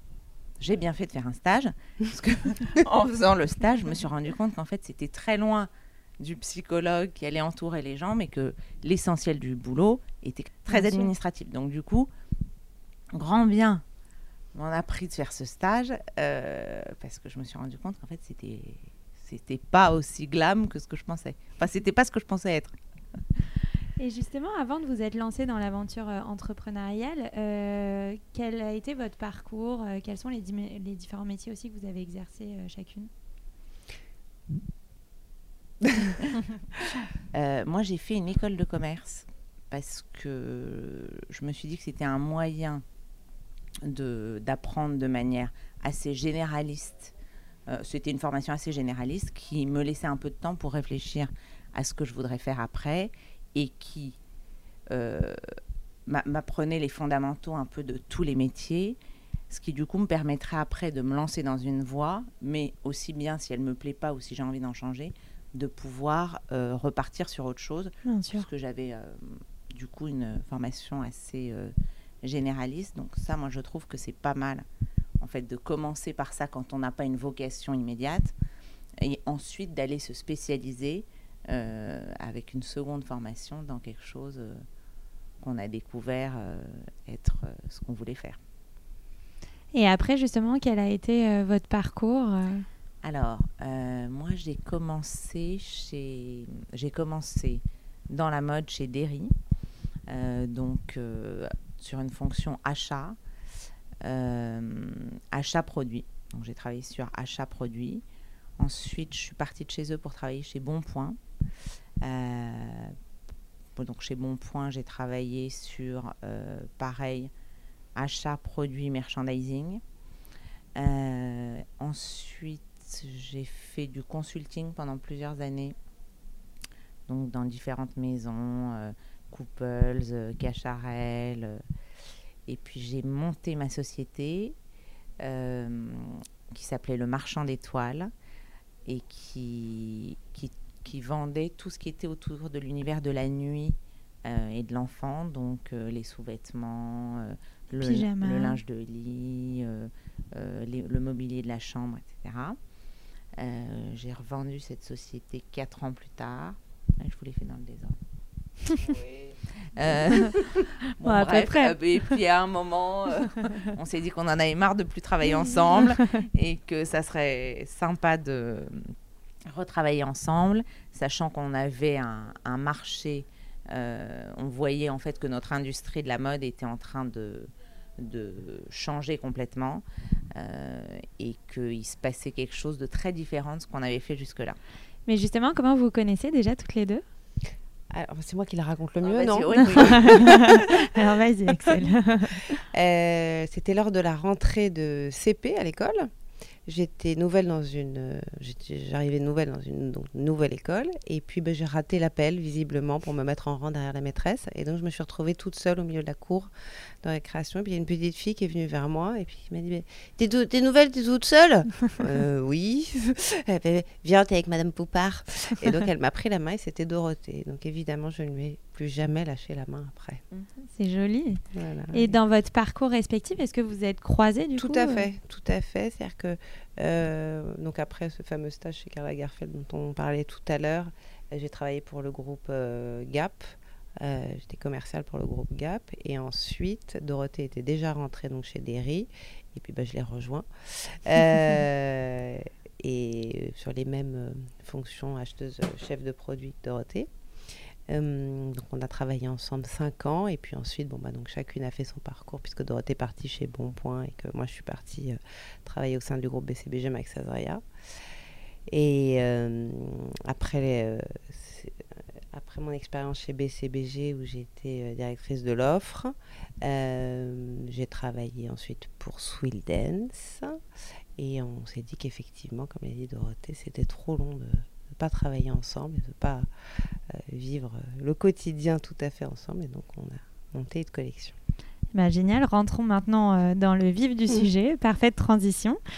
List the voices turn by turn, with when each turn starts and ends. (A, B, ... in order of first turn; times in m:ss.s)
0:00.6-0:12.1 A
0:10.7-0:11.1 B
0:13.1-0:13.8 A
0:14.5-0:22.8 A
0:24.0-0:33.1 B
0:35.8-0:36.1 C
0:37.3-0:42.8 A
0:43.8-0:47.1 A
0:47.7-0:54.2 A
0:54.9-0:55.4 A
0:56.0-0:59.0 A
0:59.5-1:14.6 A
1:08.0-1:08.4 B
1:15.2-1:18.3 A
1:19.0-1:24.6 A
1:25.4-1:28.4 A
1:29.7-1:32.6 B
1:33.0-1:39.3 A
1:40.1-1:43.2 A
1:44.0-1:48.0 A
1:48.6-1:51.2 A
1:52.0-1:53.0 A
1:53.8-1:57.3 A
1:58.0-1:59.8 A
2:00.8-2:05.8 A
2:07.1-2:11.6 A
2:12.5-2:14.5 A
2:15.2-2:18.1 A
2:18.8-2:32.6 A
2:27.7-2:28.6 B
2:33.4-2:38.0 A
2:38.8-2:48.9 A
2:40.1-2:40.4 B
2:41.0-2:42.1 B
2:49.5-3:04.6 A
3:05.1-3:07.0 B
3:07.9-3:10.6 C
3:09.0-3:10.6 A
3:09.7-3:12.6 B
3:12.6-3:16.1 C
3:16.6-3:26.5 C
3:27.0-3:40.2 C
3:40.3-3:40.7 A
3:40.7-3:45.1 B
3:41.5-3:42.1 C
3:44.6-4:07.1 C
4:07.9-4:17.6 C
4:18.7-4:30.6 C
4:31.2-4:36.5 C
4:37.1-4:41.3 C
4:41.9-4:45.8 B